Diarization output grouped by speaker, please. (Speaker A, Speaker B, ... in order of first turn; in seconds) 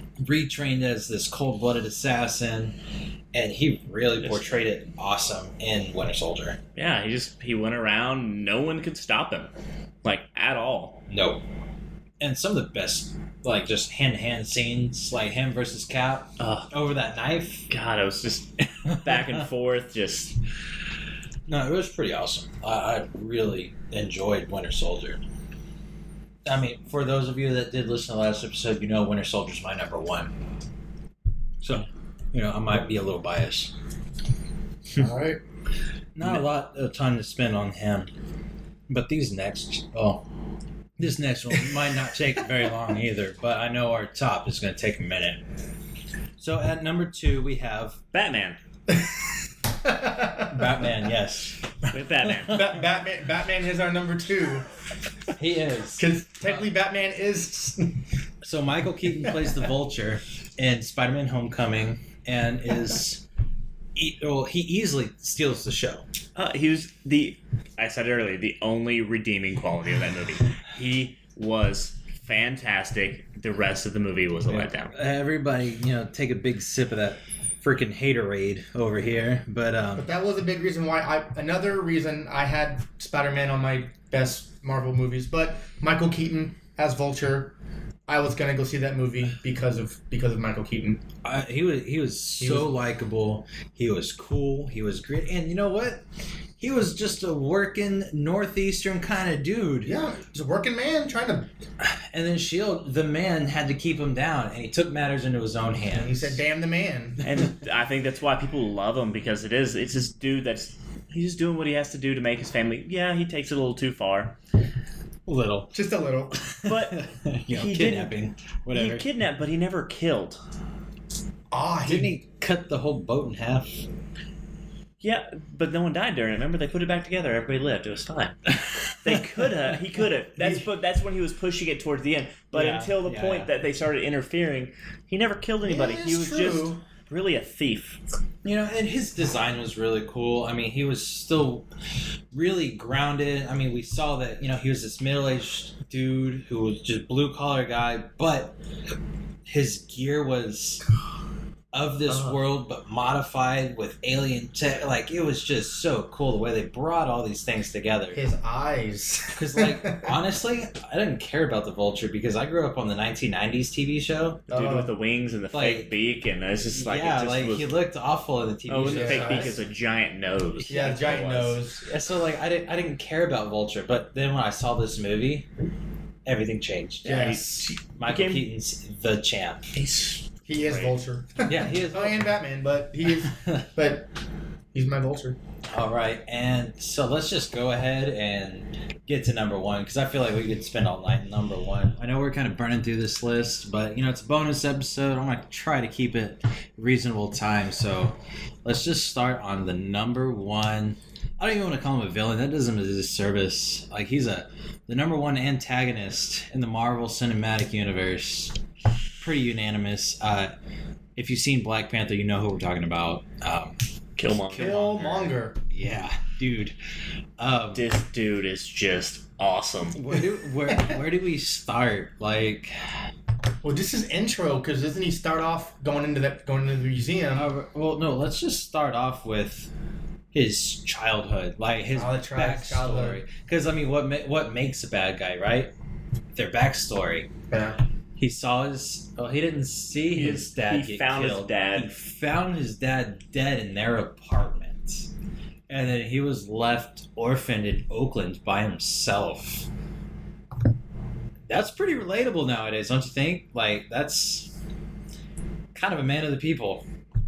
Speaker A: 0.2-2.8, 3.3-6.6, 11.1-11.4, 12.2-17.7, 18.8-19.4, 21.5-25.2, 26.4-30.3, 31.6-33.7, 36.1-38.1, 38.9-40.2, 41.0-45.4, 46.4-48.0, 50.5-52.5, 55.4-56.5, 58.4-63.2, 64.0-66.0, 74.5-80.1, 91.2-96.0, 96.6-99.9, 101.8-106.4, 115.3-115.7, 116.4-119.0, 121.8-123.9, 128.7-129.1, 132.5-133.5, 138.4-141.7, 142.3-148.6, 149.5-150.8, 151.7-158.2, 159.3-164.4, 165.5-165.9, 166.6-169.6, 170.7-171.2, 171.8-175.5, 176.2-179.7, 181.4-182.3, 183.2-183.6, 185.7-208.6, 209.1-210.5, 211.2-213.8, 214.5-216.8, 217.4-217.9, 219.9-222.7, 227.3-229.7, 230.3-235.7, 236.3-237.3, 238.2-245.1, 245.7-249.7, 251.5-254.5, 255.7-256.8
Speaker B: 4.2-4.7, 6.8-9.5, 10.0-11.0, 16.4-16.7, 17.7-20.4, 48.1-48.6, 51.9-52.7, 66.3-74.9, 107.2-114.3, 116.6-118.1, 118.7-120.4, 125.0-128.4, 128.9-138.0, 164.5-167.8, 168.7-171.6, 177.0-178.5, 179.7-180.9, 214.2-214.7, 217.7-220.0, 240.1-241.9
Speaker C: 34.9-35.4, 48.9-49.2, 49.8-50.9, 52.5-54.7, 56.0-58.0, 80.0-87.5, 88.1-91.0, 92.4-92.7, 99.8-101.5, 105.9-107.2, 115.7-116.4, 121.5-122.1, 135.6-136.8, 158.1-160.1, 164.5-164.9, 168.8-169.6, 170.7-171.9, 177.0-177.8, 180.5-184.1, 184.7-185.4, 214.5-215.6, 223.6-227.5, 231.9-233.2, 237.5-237.8